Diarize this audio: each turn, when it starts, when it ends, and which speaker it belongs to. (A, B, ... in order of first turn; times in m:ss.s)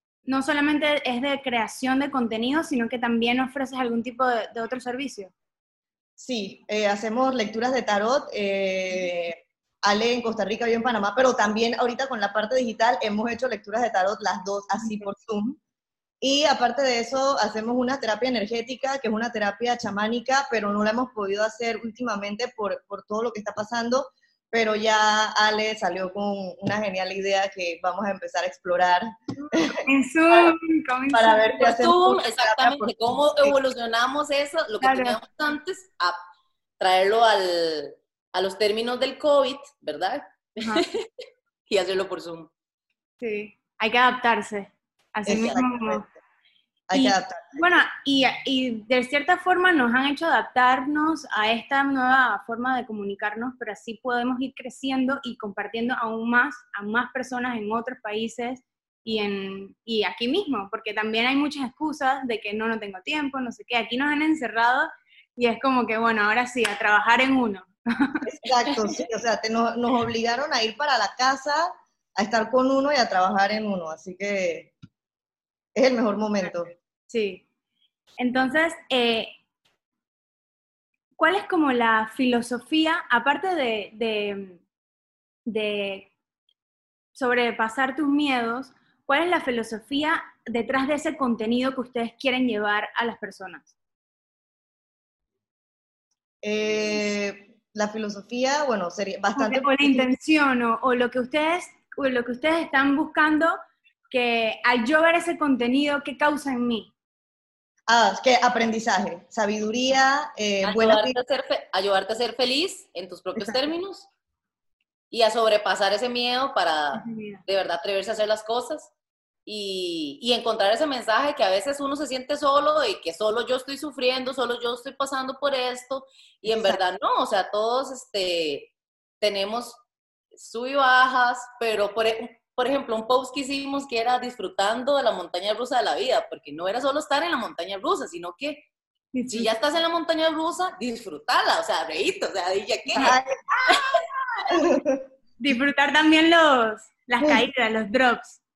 0:00.2-0:05.3 A
0:06.2-0:15.6 B
0:14.8-0:15.1 A
0:16.2-0:30.5 B
0:29.4-0:31.6 A
0:31.1-0:33.6 B
0:31.6-0:36.2 C
0:34.8-0:35.2 A
0:36.8-0:42.5 C
0:40.6-0:40.8 A
0:43.2-0:46.0 A
0:45.3-0:46.1 B
0:45.3-0:45.6 C
0:46.9-0:47.6 B
0:46.9-1:09.0 A
1:08.2-1:14.7 B
1:15.8-1:16.7 B
1:17.1-1:17.4 A
1:18.2-1:19.3 A
1:21.2-1:24.6 A
1:25.5-1:26.1 A
1:27.1-1:33.7 A
1:36.4-1:40.1 B
1:39.4-1:43.6 A
1:44.1-1:46.9 A
1:47.9-1:51.2 B
1:50.6-1:54.1 C
1:55.1-1:58.9 C
1:56.9-1:57.4 A
1:59.5-2:09.8 C
2:06.5-2:06.8 B
2:10.3-2:18.6 C
2:19.1-2:19.5 A
2:19.3-2:23.2 C
2:23.0-2:23.9 B
2:23.7-2:24.0 C
2:24.5-2:25.0 B
2:25.4-2:28.4 A